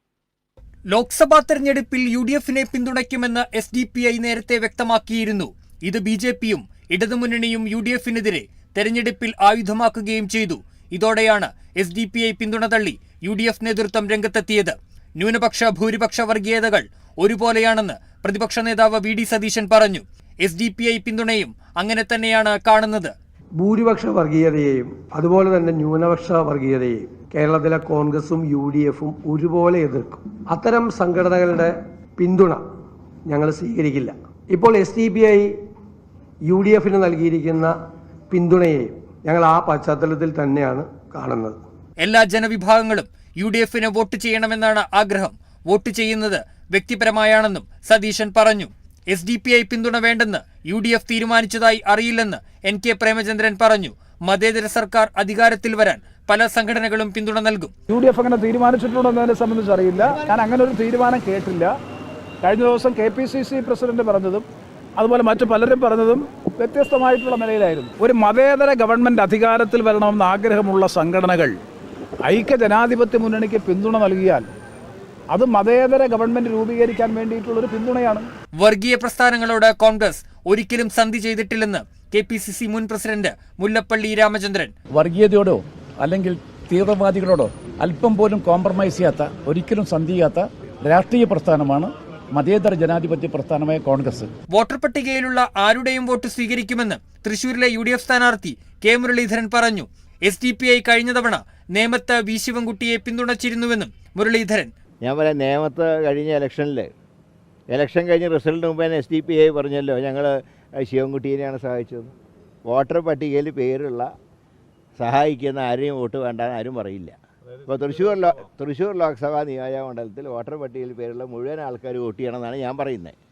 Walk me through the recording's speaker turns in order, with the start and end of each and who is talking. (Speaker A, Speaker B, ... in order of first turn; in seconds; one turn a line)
Speaker A: 0.9-23.1
Speaker B: 23.6-32.6
Speaker B: 33.2-35.5
Speaker B: 36.4-37.7
Speaker B: 38.3-41.6
Speaker A: 42.0-57.7
Speaker C: 57.9-61.7
Speaker C: 62.4-64.4
Speaker C: 65.0-71.5
Speaker C: 72.3-74.5
Speaker C: 75.3-78.2
Speaker A: 78.5-84.7
Speaker D: 84.9-94.3
Speaker A: 94.5-104.7
Speaker E: 105.0-106.9
Speaker E: 107.7-112.1
Speaker E: 112.7-114.1
Speaker E: 115.0-123.1